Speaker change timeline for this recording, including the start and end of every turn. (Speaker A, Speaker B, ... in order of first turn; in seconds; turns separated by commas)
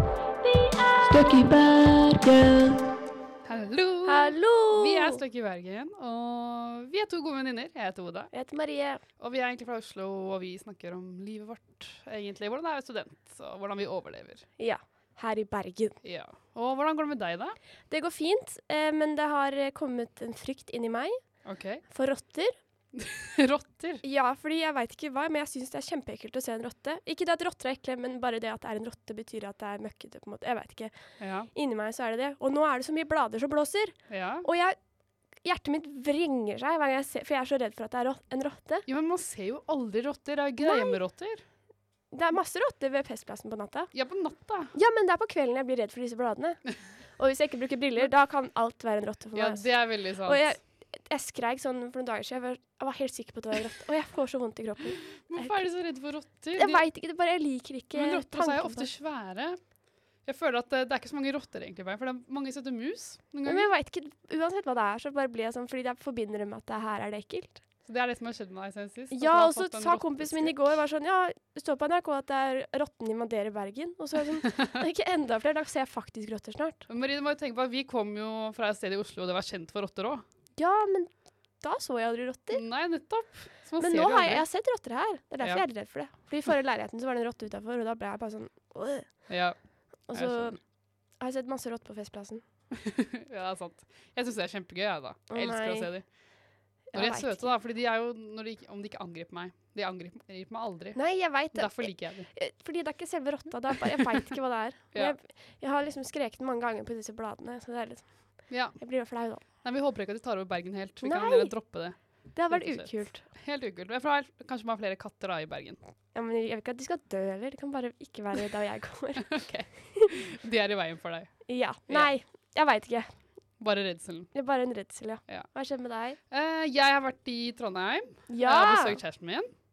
Speaker A: 0.4-2.8, Speaker B: 3.5-8.3, Speaker C: 4.1-5.2, Speaker C: 8.3-9.0, Speaker B: 9.2-14.5, Speaker C: 14.6-16.0, Speaker B: 16.0-17.6, Speaker C: 17.9-21.2, Speaker B: 21.4-21.8, Speaker C: 21.9-22.5, Speaker B: 22.9-24.0, Speaker C: 24.0-30.9, Speaker B: 31.2-31.5, Speaker C: 31.5-34.8, Speaker B: 34.1-34.5, Speaker C: 35.4-38.9, Speaker B: 38.9-41.4, Speaker C: 40.6-41.0, Speaker C: 42.1-43.9, Speaker B: 43.9-44.7, Speaker C: 44.7-46.6, Speaker C: 47.2-55.6, Speaker B: 49.4-50.5, Speaker B: 55.2-56.9, Speaker C: 56.5-58.9, Speaker B: 57.9-59.6, Speaker B: 60.2-63.7, Speaker C: 63.5-67.6, Speaker B: 67.9-70.6, Speaker C: 69.1-76.8, Speaker B: 76.9-80.2, Speaker C: 80.6-82.6, Speaker B: 82.5-84.5, Speaker C: 83.8-89.2, Speaker B: 89.3-89.5, Speaker C: 90.1-90.6, Speaker B: 90.1-90.6, Speaker C: 91.2-92.4, Speaker B: 92.7-96.1, Speaker C: 95.3-95.9, Speaker C: 96.9-97.5, Speaker B: 96.9-102.3, Speaker C: 101.0-109.4, Speaker B: 108.5-108.8, Speaker B: 109.6-112.0, Speaker C: 111.0-111.5, Speaker C: 112.3-113.2, Speaker B: 112.5-115.8, Speaker C: 116.1-120.1, Speaker B: 119.2-122.1, Speaker C: 121.5-123.1, Speaker B: 123.6-124.3, Speaker C: 124.3-126.2, Speaker B: 126.3-129.5, Speaker C: 128.3-129.0